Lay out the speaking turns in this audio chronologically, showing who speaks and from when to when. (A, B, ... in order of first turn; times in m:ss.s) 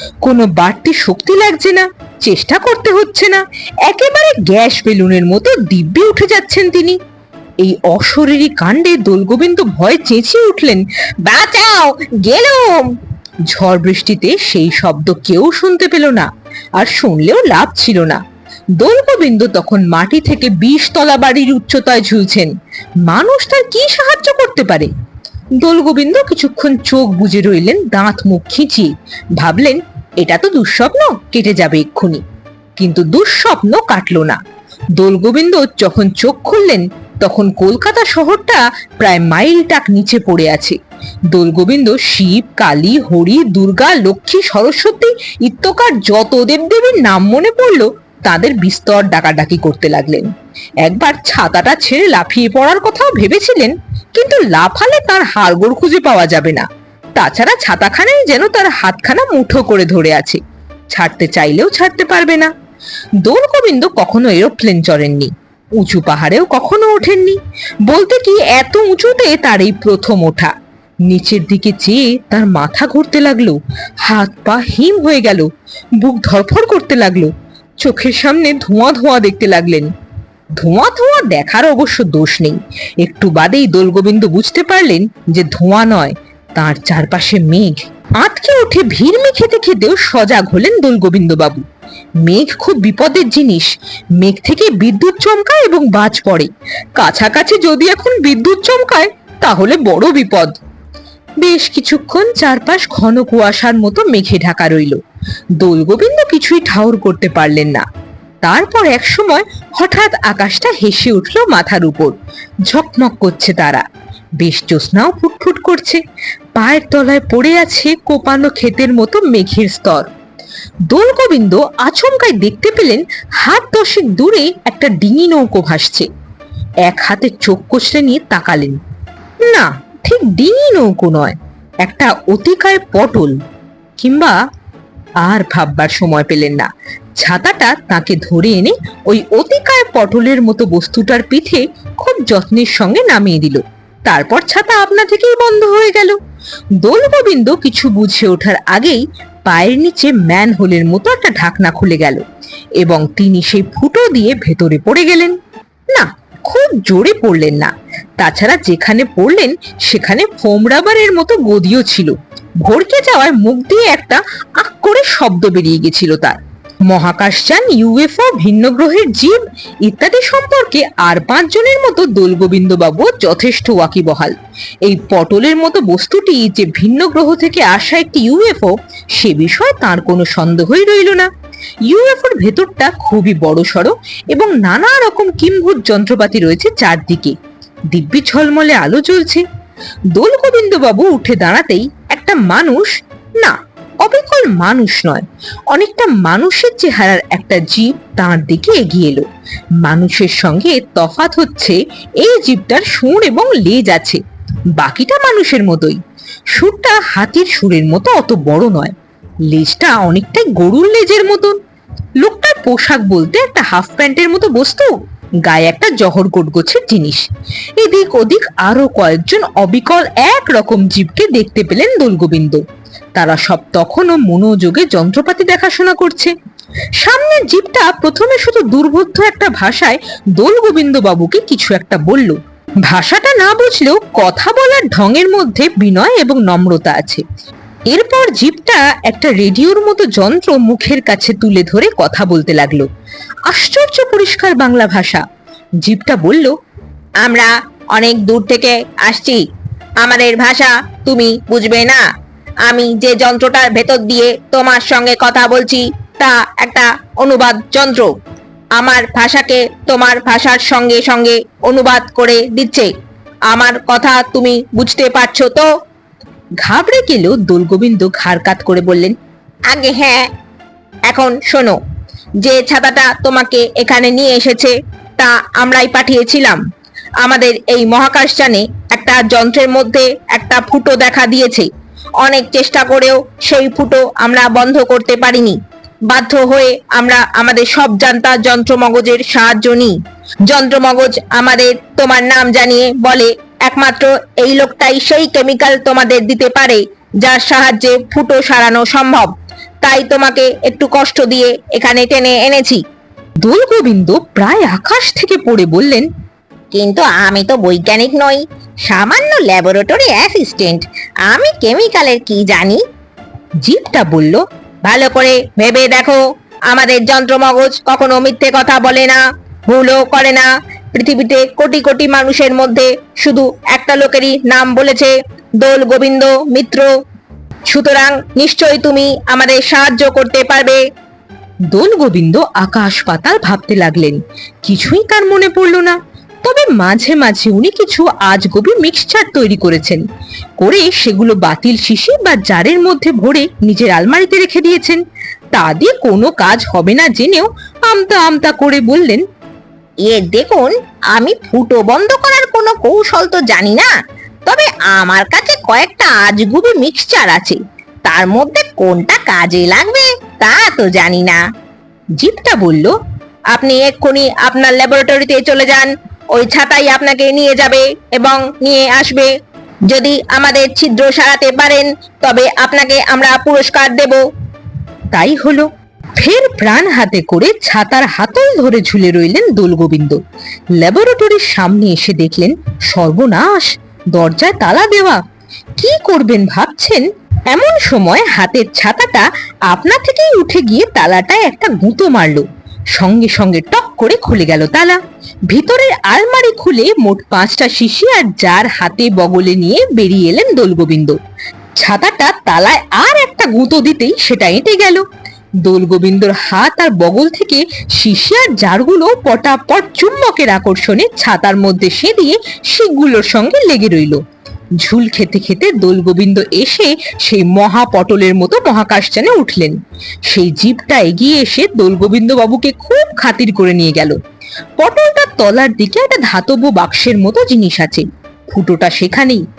0:00.2-0:07.0 A
0:07.6-0:12.9 A
0:12.0-0:12.8 B
0:13.5-0:18.2 A
0:18.8-0:22.5 A
0:23.0-0:24.9 A
0:25.6-0:32.2 A
0:32.8-0:34.4 A
0:35.0-0:40.8 A
0:41.3-0:50.3 A
0:50.8-1:00.4 A
1:00.9-1:02.5 A
1:03.2-1:10.5 A
1:11.1-1:19.9 A
1:20.6-1:31.6 A
1:32.2-1:40.6 A
1:41.4-1:45.0 A
1:45.6-1:47.8 A
1:48.4-1:52.2 A
1:52.7-1:53.8 A
1:54.4-1:56.0 A
1:56.6-2:00.1 A
2:00.9-2:06.1 A
2:06.8-2:08.8 A
2:09.4-2:13.4 A
2:14.0-2:14.4 A
2:15.2-2:26.2 A
2:26.8-2:32.2 A
2:32.8-2:35.4 A
2:35.9-2:46.4 A
2:46.9-3:01.3 A
3:01.9-3:07.4 A
3:07.9-3:09.4 A
3:10.1-3:19.2 A
3:19.8-3:24.2 A
3:24.8-3:26.0 A
3:26.5-3:29.0 A
3:29.5-3:31.6 A
3:32.2-3:34.9 A
3:35.4-3:37.2 A
3:37.8-3:42.6 A
3:43.2-3:46.3 A
3:47.0-3:57.2 A
3:57.9-4:02.9 A
4:03.5-4:05.2 A
4:05.8-4:06.5 A
4:07.2-4:09.4 A
4:08.0-4:09.4 B
4:10.0-4:12.0 B
4:10.0-4:11.9 A
4:12.7-4:18.1 B
4:12.7-4:15.8 A
4:16.6-4:18.0 A
4:18.8-4:22.9 B
4:18.8-4:22.8 A
4:23.5-4:25.6 B
4:23.5-4:25.7 A
4:26.6-4:29.2 A
4:29.7-4:30.3 B
4:29.7-4:30.2 A
4:31.1-4:31.7 B
4:31.1-4:31.7 A
4:32.4-4:36.6 B
4:32.4-4:34.7 A
4:35.2-4:36.6 A
4:37.2-4:41.6 A
4:37.3-4:41.7 B
4:42.2-4:45.6 B
4:42.3-4:45.5 A
4:46.1-4:50.0 B
4:46.1-4:49.7 A
4:50.5-4:59.3 B
4:50.5-4:53.9 A
4:54.4-4:54.7 A
4:56.2-4:56.8 A
4:57.4-4:59.2 A
4:59.8-5:02.8 B
4:59.9-5:02.7 A
5:03.4-5:06.1 A
5:06.7-5:12.8 B
5:13.6-5:16.2 A
5:15.0-5:16.2 B
5:16.7-5:26.9 B
5:16.8-5:17.4 A
5:18.8-5:19.1 A
5:19.7-5:20.3 A
5:23.3-5:25.0 A
5:27.7-5:30.8 B
5:31.7-5:40.0 A
5:40.6-5:45.0 A
5:45.5-5:49.2 A
5:50.1-5:53.9 B
5:50.2-5:50.7 A
5:51.2-5:51.6 A
5:53.3-5:53.7 A
5:54.5-6:01.4 B
5:56.6-5:57.5 A
6:02.2-6:03.0 A
6:03.6-6:09.3 B
6:03.6-6:05.6 A
6:07.4-6:08.3 A
6:09.9-6:14.2 B
6:15.1-6:20.2 A
6:20.8-6:25.2 A
6:25.8-6:35.0 A
6:35.5-6:41.2 A
6:41.8-6:45.0 A
6:45.6-6:54.2 A
6:54.8-7:04.2 A
7:04.8-7:09.4 A